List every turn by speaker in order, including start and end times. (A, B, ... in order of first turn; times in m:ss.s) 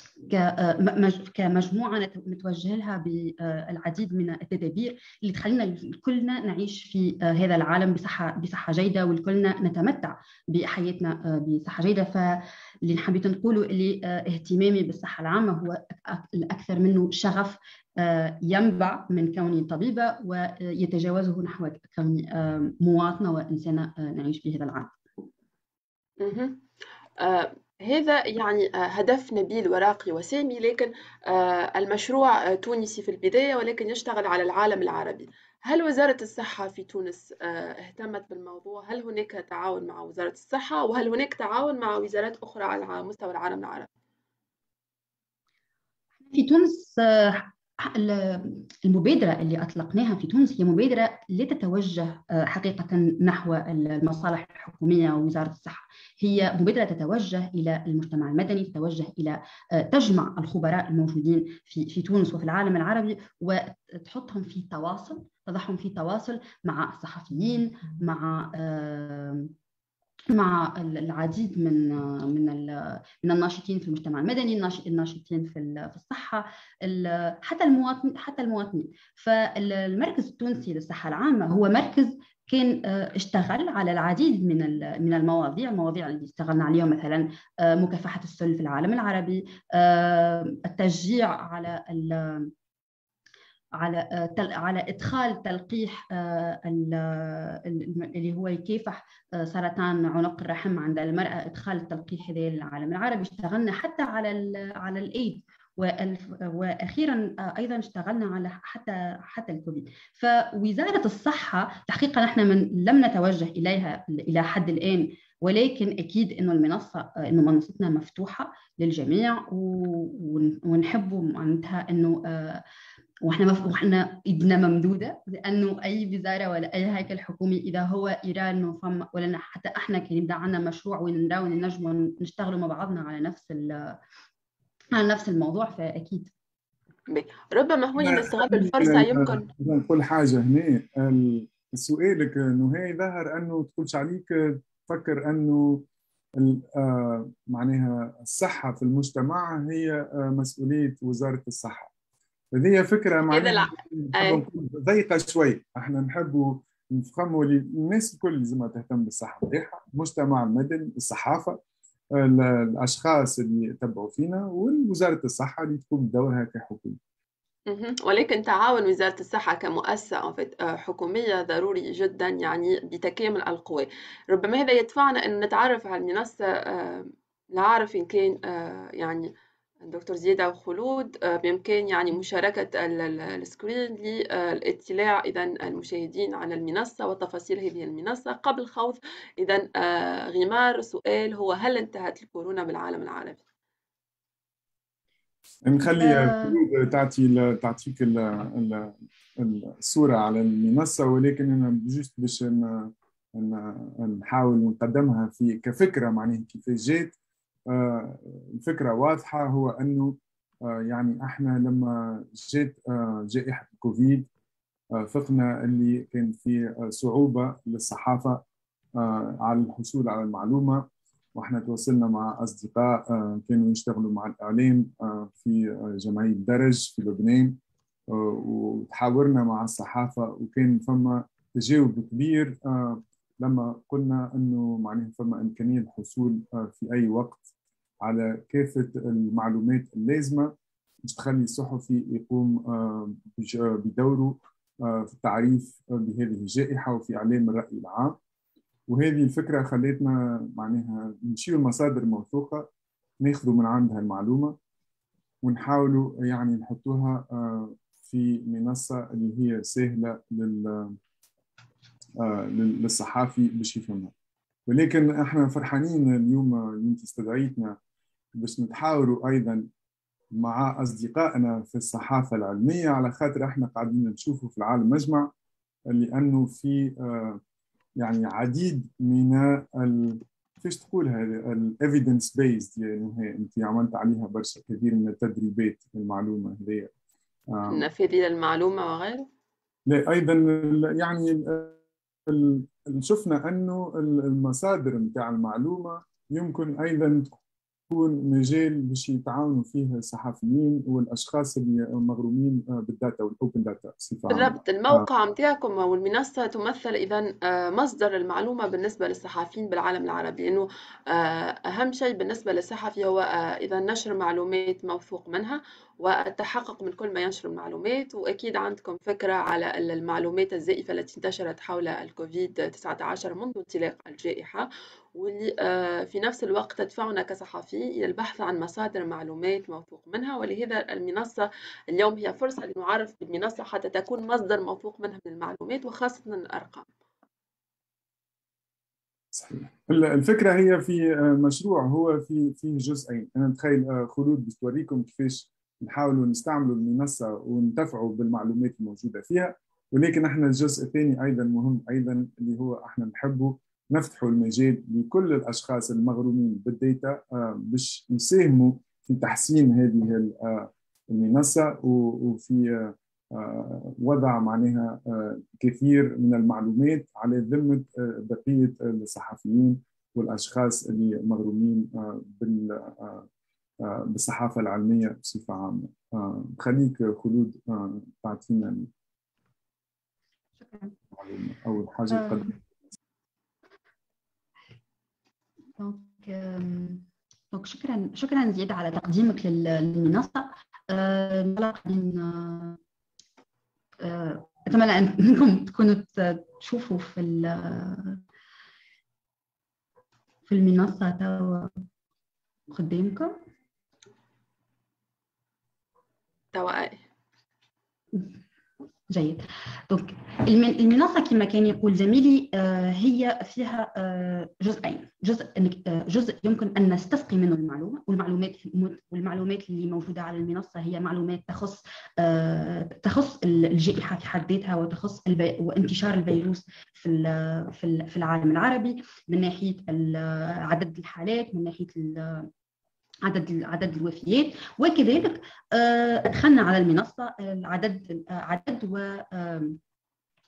0:00.3-0:25.0 A
0:26.2-0:26.6 B
0:27.2-0:43.9 B
0:46.2-1:09.5 A
1:10.3-1:32.5 A
1:33.8-2:02.6 A
2:03.2-2:14.0 A
2:14.9-2:16.3 A
2:17.1-2:19.5 B
2:18.0-2:25.8 C
2:26.4-2:31.9 C
2:32.5-2:41.6 C
2:33.3-2:34.4 B
2:42.1-2:47.0 C
2:47.7-2:59.3 B
2:59.8-3:13.4 B
3:15.6-3:27.1 C
3:16.0-3:16.6 A
3:27.7-3:34.3 C
3:35.0-3:38.4 C
3:39.0-3:47.6 C
3:48.1-3:57.5 C
3:58.0-4:00.5 C
4:01.0-4:08.2 C
4:08.9-4:12.7 C
4:13.2-4:14.5 C
4:15.4-4:21.0 C
4:22.2-4:24.1 C
4:24.7-4:27.8 C
4:28.4-4:29.6 C
4:30.4-4:35.3 C
4:35.9-4:37.4 C
4:38.0-4:46.9 C
4:47.5-4:47.8 C
4:47.7-4:49.3 B
4:49.9-4:57.3 C
4:57.9-5:05.0 C
5:04.3-5:36.9 B
5:39.3-6:13.3 C
6:13.8-6:18.9 C
6:20.6-6:21.0 A
6:21.1-6:22.6 C
6:22.1-6:22.5 A
6:25.8-6:32.8 A
6:34.0-6:38.2 A
6:40.5-6:41.7 A
6:42.7-6:43.4 A
6:46.5-6:47.0 B
6:49.1-7:12.5 A
7:13.2-7:19.8 A